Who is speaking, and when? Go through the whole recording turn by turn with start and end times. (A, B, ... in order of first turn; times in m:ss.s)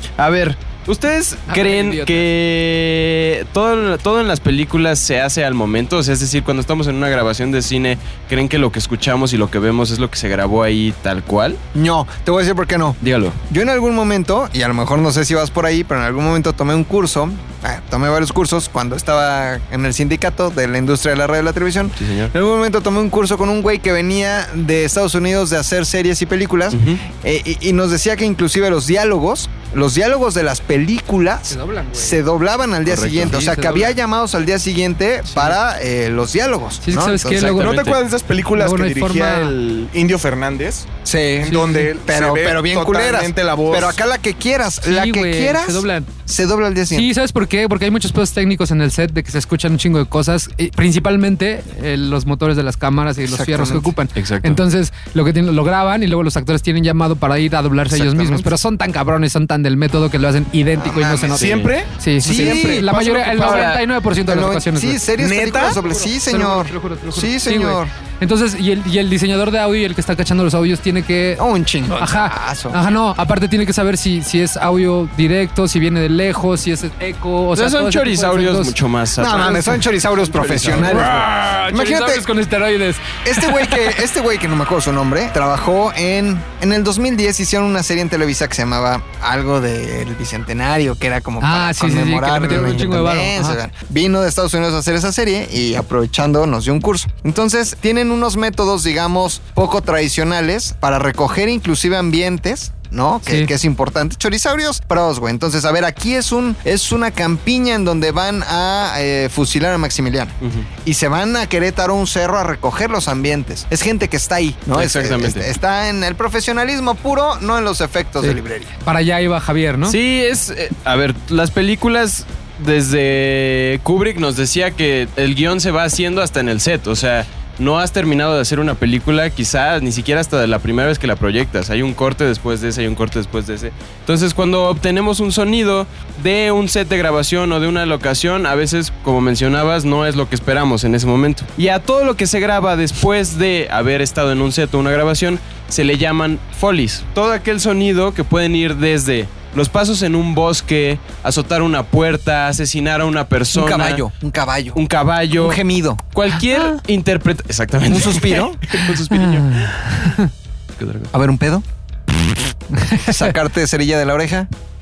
0:00.2-0:11.6 A
0:01.5-0:02.3 B
0:11.7-0:37.7 C
0:13.0-0:13.4 A
0:22.0-0:22.3 A
0:26.7-0:27.0 A
0:31.5-0:32.2 B
0:32.9-0:33.4 A
0:33.3-0:33.9 B
0:36.8-0:37.8 B
0:37.4-0:38.0 A
0:37.4-0:40.9 D
0:38.6-0:39.5 B
0:41.0-0:47.1 C
0:41.4-0:44.0 D
0:41.4-0:41.9 B
0:44.8-0:46.1 B
0:46.9-1:05.0 B
0:53.2-0:53.9 C
0:54.2-0:54.6 A
0:57.9-0:58.6 C
1:00.8-1:01.6 C
1:01.4-1:03.8 D
1:01.4-1:01.7 A
1:02.2-1:02.9 C
1:03.4-1:03.7 C
1:04.3-1:07.9 C
1:05.2-1:05.8 D
1:05.9-1:18.7 B
1:11.4-1:12.8 C
1:17.6-1:19.8 A
1:19.2-1:22.3 C
1:19.4-1:19.7 B
1:20.3-1:21.0 A
1:20.7-1:23.9 B
1:23.2-1:58.7 C
1:31.4-1:33.6 B
1:43.2-1:43.5 B
1:50.4-1:50.7 A
1:54.7-1:55.5 A
1:58.2-2:00.0 B
1:59.9-2:34.0 A
2:33.5-2:34.8 C
2:34.8-2:35.6 A
2:35.3-2:36.0 C
2:36.1-2:40.0 A
2:37.9-2:38.6 C
2:39.1-2:40.3 B
2:40.8-2:41.1 A
2:41.1-2:41.6 C
2:42.7-2:43.3 B
2:43.0-2:44.5 C